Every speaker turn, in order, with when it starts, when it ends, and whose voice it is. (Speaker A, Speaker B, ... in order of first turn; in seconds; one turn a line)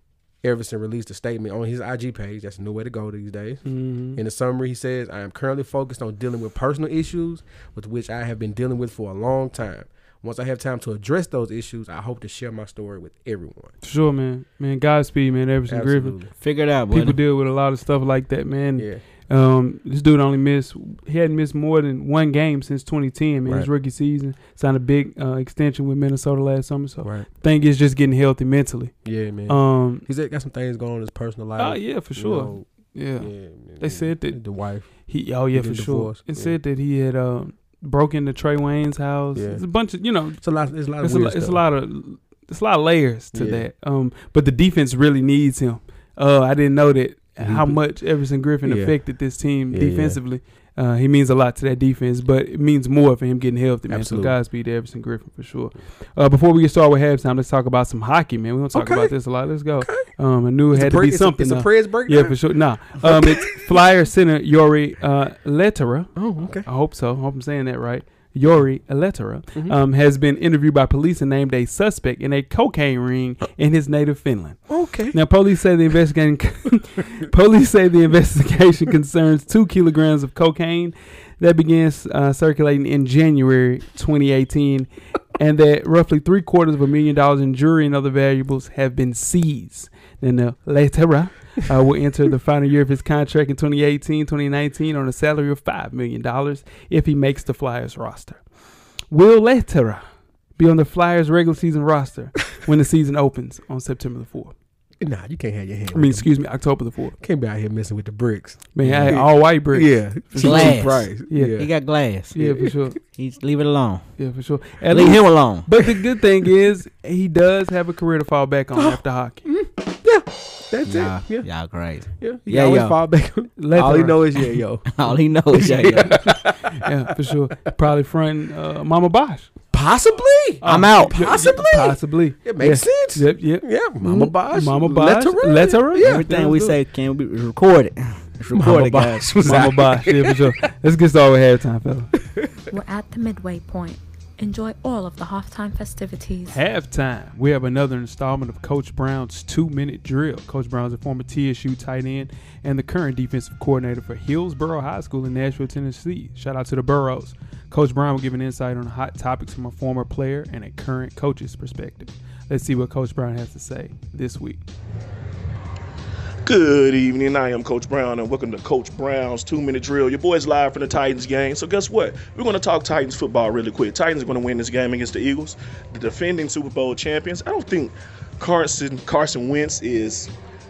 Speaker A: 0.4-13.7
Speaker B: 3.6-4.2
Speaker B: 13.8-16.1
Speaker A: 15.7-16.3
Speaker C: 16.4-17.2
Speaker B: 16.9-28.9
Speaker A: 27.0-27.3
Speaker A: 29.0-32.6
Speaker B: 29.5-30.0
Speaker B: 31.6-34.4
Speaker A: 33.2-34.9
Speaker B: 35.1-40.4
Speaker A: 35.5-36.5
Speaker A: 39.3-39.6
Speaker A: 40.4-41.6
Speaker B: 41.0-74.6
Speaker A: 43.3-43.6
Speaker A: 47.4-47.8
Speaker A: 48.6-49.0
Speaker A: 49.7-50.2
Speaker A: 53.9-54.4
Speaker A: 58.7-59.1
Speaker A: 59.8-60.1
Speaker A: 60.7-62.4
Speaker A: 62.9-63.8
Speaker A: 66.2-66.7
Speaker A: 74.7-75.2
Speaker B: 75.1-98.4
Speaker B: 99.1-100.0
Speaker B: 100.6-104.5
Speaker A: 105.0-106.3
Speaker B: 105.9-107.1
Speaker A: 107.2-111.7
Speaker B: 108.7-111.6
Speaker C: 108.8-109.1
Speaker C: 110.4-112.3
Speaker B: 112.3-113.0
Speaker A: 112.3-112.8
Speaker C: 113.1-114.0
Speaker B: 114.2-119.5
Speaker C: 114.9-115.7
Speaker A: 118.8-121.5
Speaker C: 120.8-123.0
Speaker A: 122.2-126.9
Speaker B: 123.6-124.2
Speaker C: 124.9-126.2
Speaker B: 126.0-129.5
Speaker A: 129.7-136.3
Speaker B: 130.6-136.7
Speaker C: 130.6-131.1
Speaker C: 136.0-139.7
Speaker A: 138.5-140.5
Speaker B: 139.4-142.1
Speaker A: 142.2-142.5
Speaker D: 142.7-146.6
Speaker B: 146.5-164.6
Speaker E: 166.4-180.3